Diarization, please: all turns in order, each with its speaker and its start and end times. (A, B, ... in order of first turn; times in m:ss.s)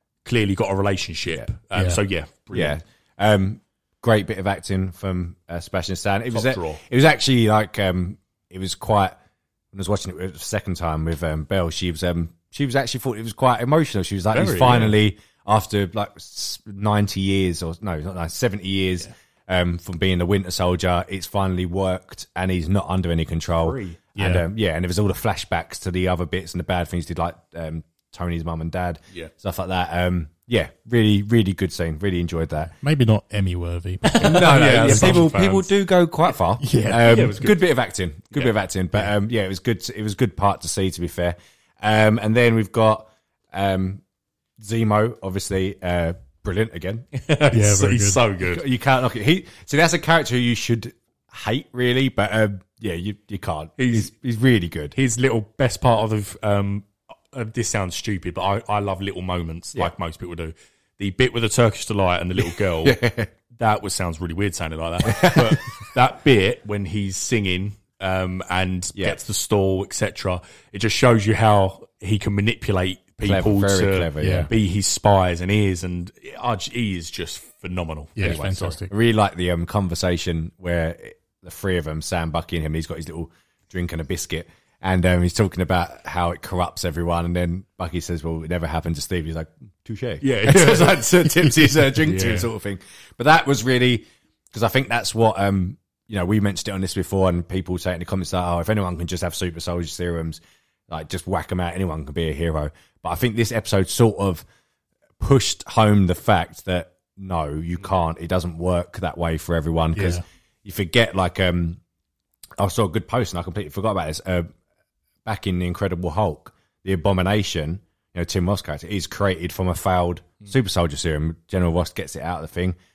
0:00.2-0:02.8 A
0:01.7-0:02.0 B
0:02.5-0:09.2 C
0:06.3-0:06.8 A
0:09.7-0:32.7 C
0:14.3-0:15.0 A
0:23.6-0:24.0 A
0:24.2-0:24.4 B
0:32.8-0:35.2 B
0:34.0-0:35.7 A
0:34.2-0:44.0 C
0:36.6-0:37.4 B
0:36.9-0:37.7 A
0:38.3-0:39.0 A
0:44.6-0:47.1 C
0:47.1-0:48.6 A
0:47.5-0:48.2 B
0:48.4-0:55.0 C
0:53.8-0:54.1 A
0:55.0-1:03.0 A
1:02.8-1:03.3 C
1:03.6-1:18.8 A
1:05.0-1:05.8 C
1:13.2-1:14.5 C
1:14.2-1:14.5 B
1:18.2-1:18.9 B
1:18.2-1:44.4 C
1:30.2-1:32.5 A
1:45.2-1:51.8 C
1:50.0-1:50.2 B
1:52.6-1:54.5 C
1:55.2-2:02.8 C